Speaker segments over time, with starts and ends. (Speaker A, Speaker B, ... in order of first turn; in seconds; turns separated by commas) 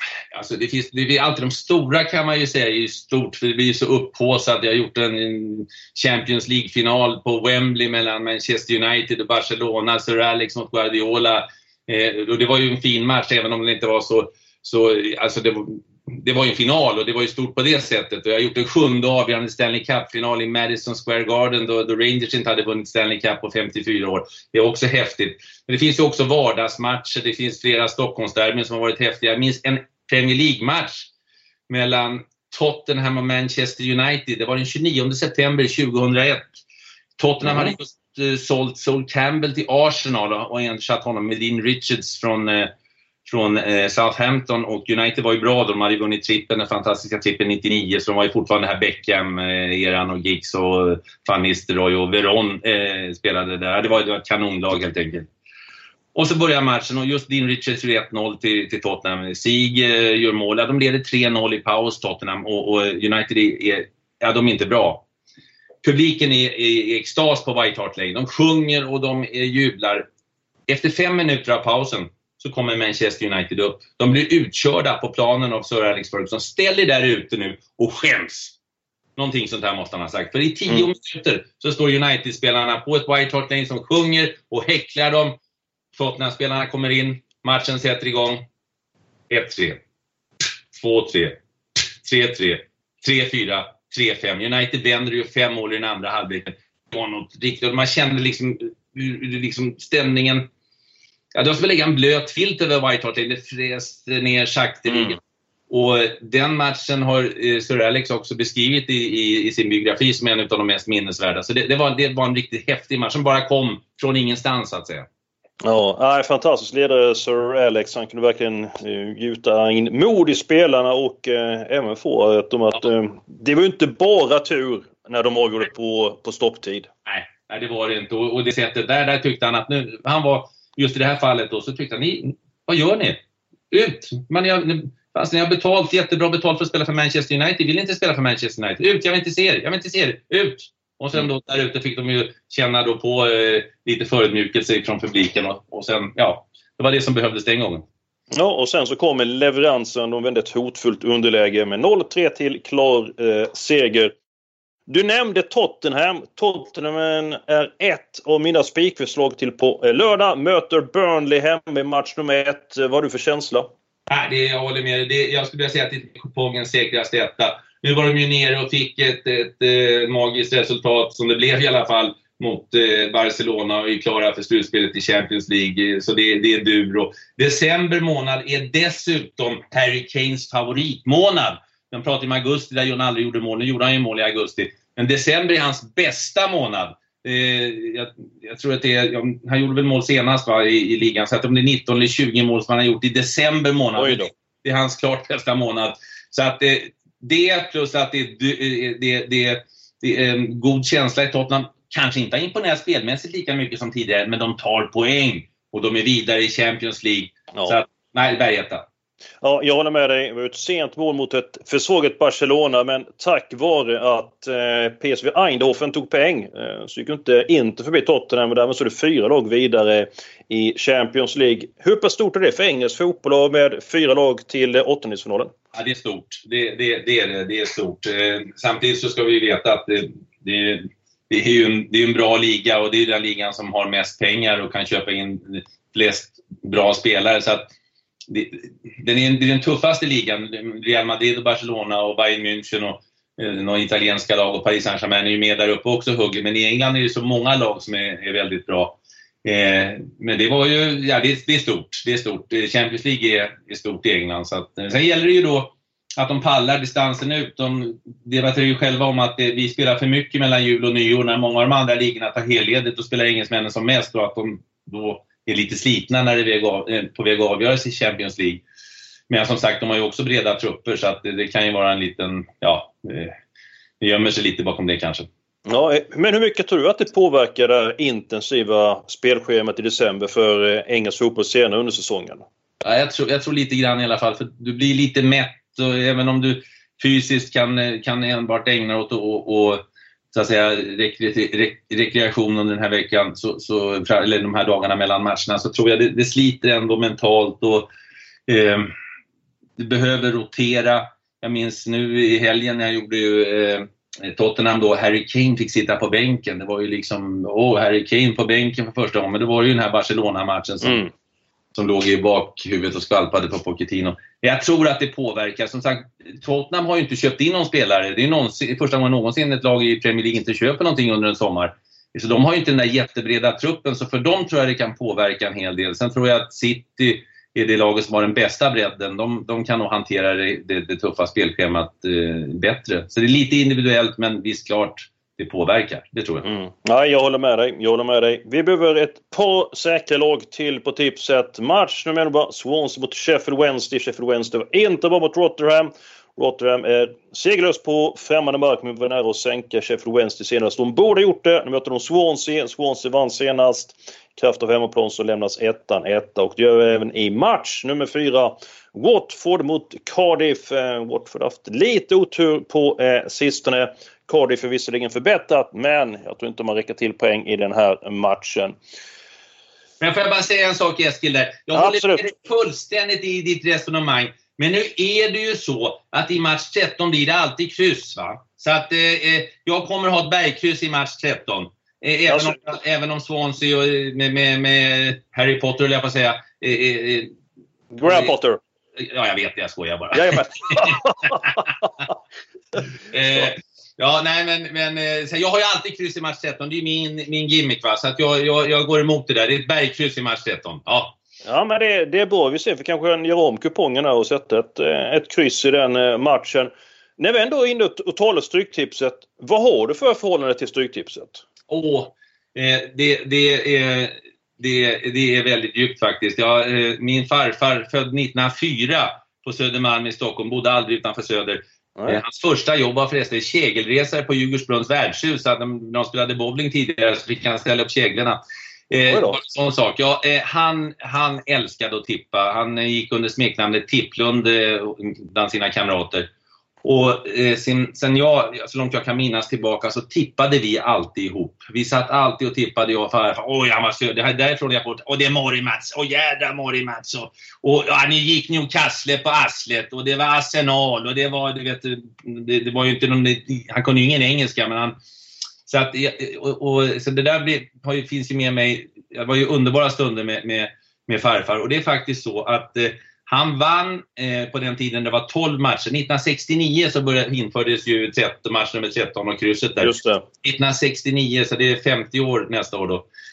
Speaker A: 0.3-31.1, Speaker A: 31.7-36.5, Speaker A: 37.2-42.7, Speaker A: 43.2-55.3, Speaker A: 56.1-65.0, Speaker A: 65.8-70.1, Speaker A: 70.7-78.5, Speaker A: 79.2-85.4, Speaker A: 85.9-88.5, Speaker A: 89.3-89.8, Speaker A: 90.7-91.4, Speaker A: 92.0-100.5, Speaker A: 101.3-105.2, Speaker A: 105.7-115.1, Speaker B: 115.6-126.9, Speaker A: 127.1-147.8, Speaker B: 148.3-154.2, Speaker B: 154.9-163.7, Speaker A: 164.1-208.8, Speaker B: 194.0-194.3, Speaker B: 207.5-207.8, Speaker B: 209.4-225.5, Speaker A: 225.7-237.7, Speaker A: 238.3-268.6, Speaker A: 269.3-273.4, Speaker A: 274.0-275.3, Speaker B: 275.7-282.4, Speaker A: 282.8-297.9, Speaker A: 298.5-298.9, Speaker A: 299.8-311.1, Speaker B: 310.8-311.1, Speaker A: 311.7-336.4, Speaker B: 336.4-368.8, Speaker A: 370.0-387.3, Speaker B: 371.7-372.3, Speaker B: 382.3-382.6, Speaker B: 387.9-388.6, Speaker A: 388.1-388.3, Speaker A: 389.0-391.7, Speaker B: 390.1-391.4, Speaker A: 393.1-401.2, Speaker B: 401.4-411.4, Speaker A: 411.7-436.3, Speaker B: 429.1-429.4, Speaker A: 436.8-455.0, Speaker A: 455.6-473.1, Speaker B: 469.8-470.2